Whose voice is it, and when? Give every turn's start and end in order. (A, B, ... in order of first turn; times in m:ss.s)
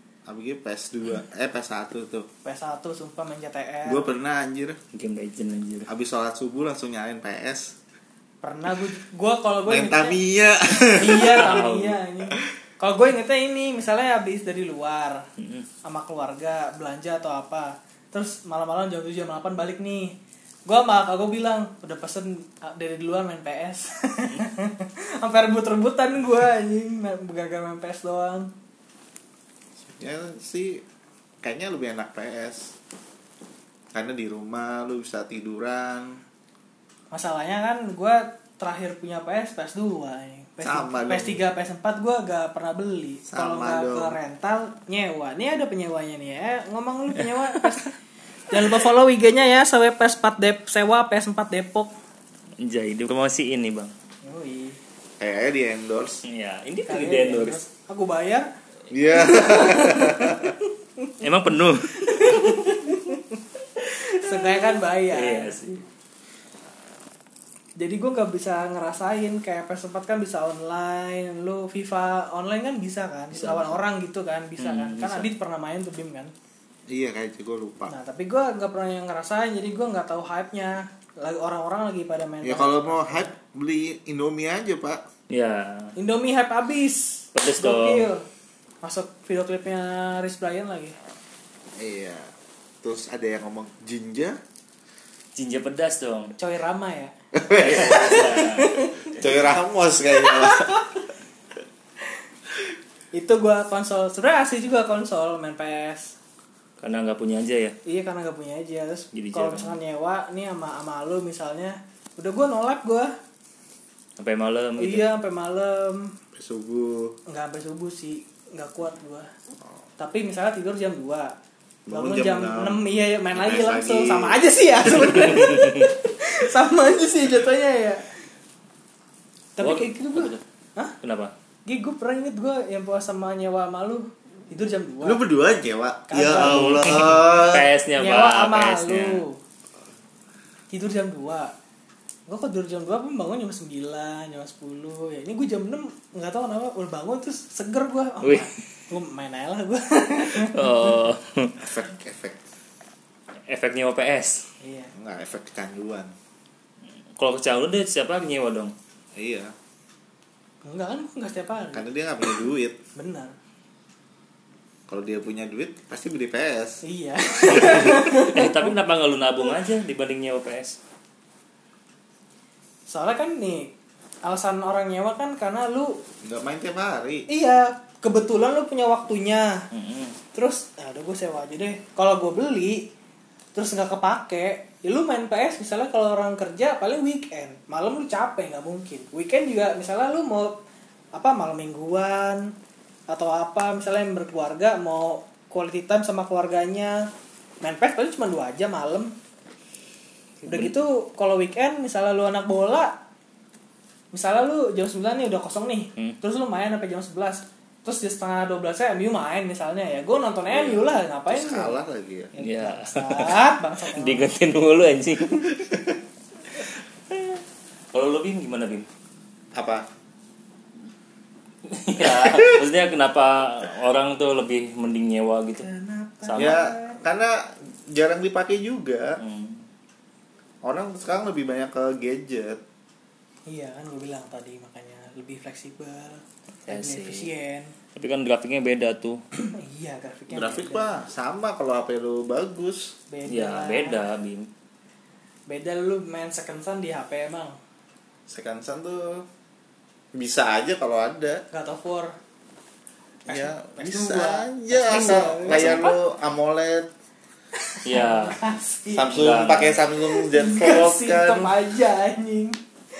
0:00.2-0:02.3 A
0:02.4-0:04.1 B
0:03.8-0:04.8 A
0:04.9-0:05.9 C
0:05.9-0:07.7 A
0:08.4-0:10.2 B
0:09.6-0:11.7 A
0:10.9-0:15.2 B
0:11.4-0:12.0 C
0:15.4-0:15.7 C
0:15.8-0:20.1 B
0:20.6-0:28.5 B
0:29.9-0:30.8 A
0:31.4-0:32.7 A
0:33.9-0:36.2 A
0:37.1-0:47.9 B
0:40.6-0:41.4 A
0:43.3-0:44.2 A
0:48.5-0:51.9 B
0:52.6-0:53.9 C
0:54.2-0:54.8 B
0:55.2-0:56.2 A
0:56.2-0:57.6 C
0:56.9-0:58.5 B
0:58.9-1:00.5 A
0:59.2-1:01.2 B
1:01.2-1:02.9 C
1:01.9-1:05.6 B
1:05.1-1:05.8 C
1:07.8-1:16.3 B
1:13.3-1:13.8 C
1:14.6-1:15.3 C
1:16.9-1:17.9 A
1:17.9-1:23.3 B
1:22.4-1:25.0 A
1:25.3-1:25.9 C
1:26.0-1:28.2 B
1:27.3-1:28.1 C
1:28.8-1:30.9 B
1:31.8-1:32.3 A
1:32.8-1:34.4 A
1:35.3-1:36.3 C
1:36.4-1:39.2 B
1:37.3-1:38.3 A
1:37.5-1:38.7 C
1:39.1-1:40.8 A
1:40.1-1:41.0 B
1:43.1-1:46.1 B
1:46.8-1:47.8 C
1:47.8-1:53.1 B
1:49.1-1:49.8 C
1:54.2-1:55.1 C
1:54.8-1:56.1 B
1:56.3-1:57.2 A
1:57.3-1:59.3 B
2:00.0-2:01.3 B
2:01.9-2:04.4 A
2:01.9-2:08.2 B
2:05.4-2:05.7 C
2:09.6-2:11.0 B
2:09.6-2:10.4 C
2:11.0-2:11.3 C
2:11.6-2:15.2 B
2:15.0-2:17.7 A
2:16.1-2:17.2 B
2:16.3-2:19.2 C
2:18.0-2:19.4 B
2:20.7-2:21.5 B
2:22.3-2:30.9 B
2:28.2-2:28.6 C
2:30.2-2:31.7 C
2:31.6-2:32.4 A
2:33.5-2:34.5 C
2:34.6-2:34.9 B
2:34.9-2:36.1 A
2:37.2-2:38.7 C
2:39.1-2:39.5 A
2:40.6-2:41.8 B
2:41.7-2:42.8 A
2:42.9-2:43.3 B
2:44.9-2:46.8 A
2:46.8-2:48.7 B
2:47.5-2:50.8 C
2:52.9-2:53.7 B
2:54.2-2:56.0 B
2:56.2-2:57.3 A
2:57.3-2:59.7 B
2:59.7-3:00.2 C
3:00.3-3:02.9 B
3:03.5-3:10.6 B
3:11.1-3:12.5 B
3:13.1-3:17.1 B
3:17.6-3:19.1 B
3:20.4-3:20.7 C
3:20.5-3:23.0 B
3:24.1-3:31.8 B
3:31.3-3:32.3 A
3:32.3-3:34.3 B
3:32.4-3:35.6 C
3:35.6-3:36.0 A
3:37.1-3:37.4 C
3:37.9-3:38.9 C
3:39.5-3:39.8 A
3:41.7-3:45.7 C
3:42.0-3:42.5 A
3:45.6-3:47.0 B
3:46.2-3:46.6 C
3:46.3-3:49.2 A
3:49.2-3:49.6 C
3:50.6-3:52.6 A
3:53.5-3:57.7 B
3:56.7-3:57.3 C
3:57.9-3:59.2 C
3:59.4-4:01.0 B
4:00.3-4:02.9 A
4:03.1-4:04.0 B
4:03.3-4:04.5 C
4:05.5-4:07.5 B
4:08.3-4:09.2 A
4:10.1-4:11.4 A
4:11.5-4:12.1 B
4:13.2-4:16.0 B
4:13.3-4:16.9 A
4:15.1-4:15.8 C
4:17.6-4:22.6 B
4:17.8-4:18.4 C
4:18.9-4:21.6 A
4:19.1-4:19.8 C